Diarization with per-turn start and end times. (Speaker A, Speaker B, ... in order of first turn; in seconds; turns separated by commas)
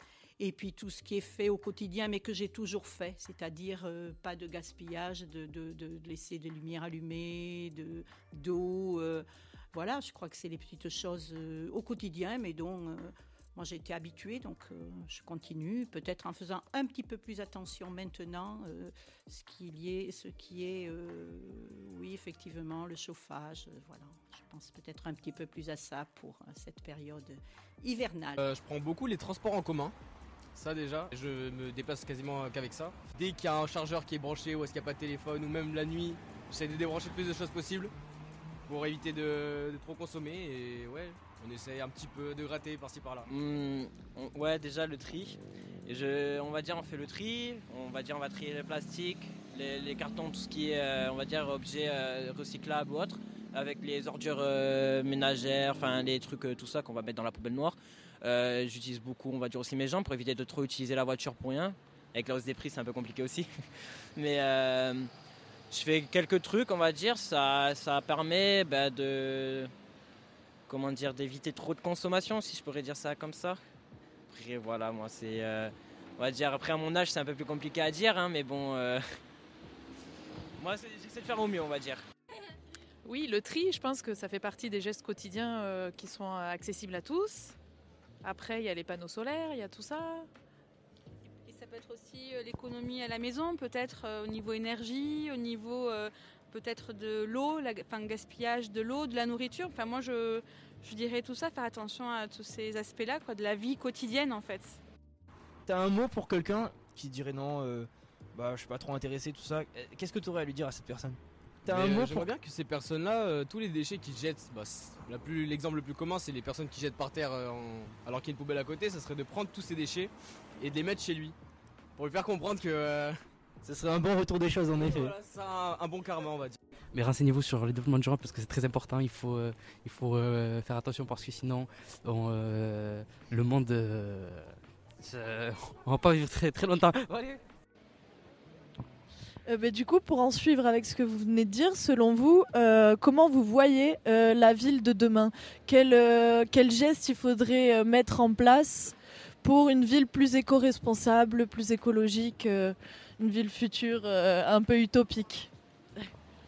Speaker A: 0.4-28.4, Speaker B: 28.4-29.9, Speaker B: 30.5-37.9, Speaker B: 38.6-43.3, Speaker C: 43.3-63.5, Speaker C: 64.2-65.1, Speaker C: 65.7-69.7, Speaker C: 70.7-73.6, Speaker C: 74.3-79.0, Speaker C: 80.6-82.0, Speaker D: 83.0-87.5, Speaker D: 88.2-90.3, Speaker E: 91.5-104.8, Speaker F: 105.7-112.3, Speaker B: 111.7-121.3, Speaker B: 122.0-123.2, Speaker F: 123.6-125.1, Speaker B: 124.8-126.6, Speaker G: 126.9-137.4, Speaker H: 139.4-155.5